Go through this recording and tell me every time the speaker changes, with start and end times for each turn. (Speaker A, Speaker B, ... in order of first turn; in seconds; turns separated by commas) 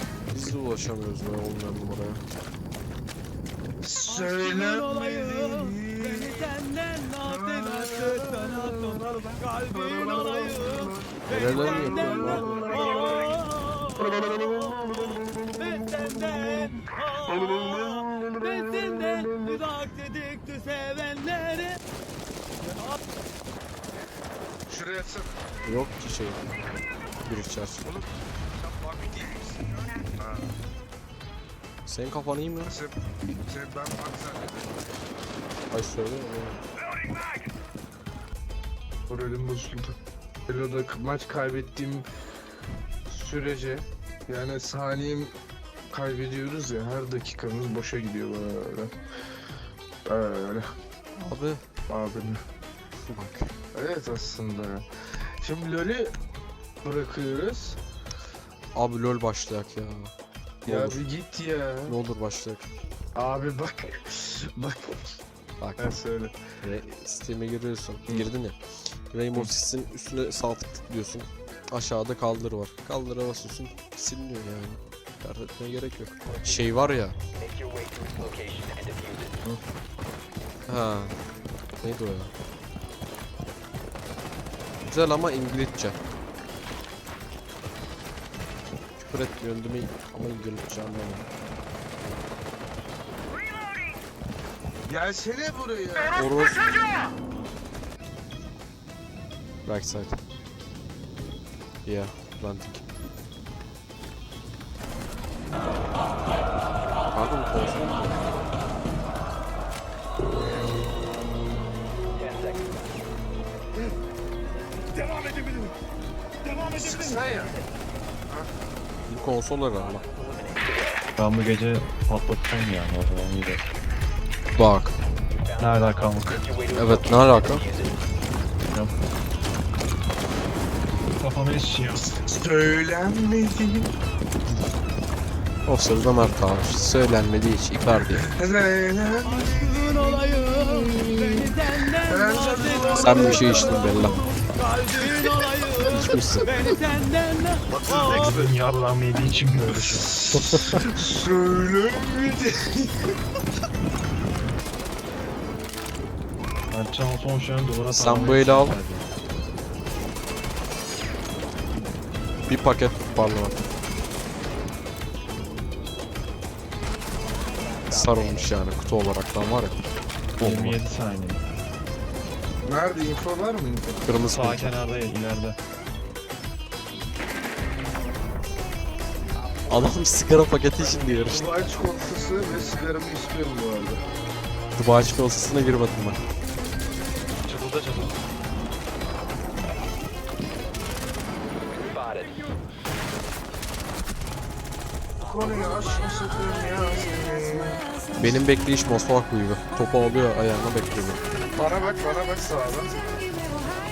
Speaker A: 0.3-2.2, Speaker B: 3.8-6.5, Speaker C: 4.1-21.8, Speaker B: 7.2-13.3, Speaker A: 11.3-12.7, Speaker B: 24.7-25.3, Speaker A: 25.6-26.4, Speaker A: 27.2-27.9, Speaker B: 27.8-30.6, Speaker A: 31.9-32.8, Speaker B: 32.6-34.7, Speaker A: 35.7-36.6, Speaker B: 39.1-39.9, Speaker B: 40.5-42.1, Speaker B: 43.1-45.3, Speaker B: 45.9-48.9, Speaker B: 50.0-50.7, Speaker A: 51.1-51.6, Speaker B: 51.9-52.4, Speaker A: 53.1-53.5, Speaker B: 53.7-54.9, Speaker B: 55.4-56.1, Speaker B: 56.8-57.8, Speaker A: 58.7-60.1, Speaker A: 60.6-61.0, Speaker B: 60.6-62.0, Speaker A: 61.9-62.7, Speaker B: 63.1-65.0, Speaker A: 65.6-65.9, Speaker B: 65.8-66.4, Speaker A: 66.6-77.2, Speaker D: 78.3-78.9, Speaker A: 80.7-81.2, Speaker A: 81.8-82.3, Speaker A: 84.8-86.0, Speaker A: 89.0-91.2, Speaker B: 94.9-96.2, Speaker A: 96.1-96.6, Speaker A: 99.6-100.2, Speaker A: 101.8-102.8, Speaker A: 107.1-108.3, Speaker B: 116.6-117.6, Speaker A: 119.1-120.1, Speaker D: 121.2-123.6, Speaker A: 124.5-124.9, Speaker D: 125.6-126.6, Speaker A: 126.7-127.7, Speaker D: 131.2-132.2, Speaker B: 132.2-133.9, Speaker A: 135.7-138.3, Speaker B: 138.2-144.1, Speaker C: 139.2-148.3, Speaker A: 142.9-144.3, Speaker A: 145.8-146.5, Speaker B: 147.7-148.5, Speaker D: 148.0-150.1, Speaker B: 149.7-153.1, Speaker D: 156.7-159.1, Speaker A: 157.9-158.8, Speaker A: 162.5-163.6, Speaker A: 167.9-169.8, Speaker D: 170.4-171.4, Speaker A: 170.4-170.8, Speaker B: 172.6-174.0, Speaker A: 174.0-174.8, Speaker D: 174.3-175.6, Speaker A: 179.7-181.5, Speaker B: 180.8-184.0, Speaker A: 184.8-186.2, Speaker D: 187.4-188.2, Speaker B: 195.2-198.4, Speaker A: 198.2-201.2, Speaker B: 201.5-203.0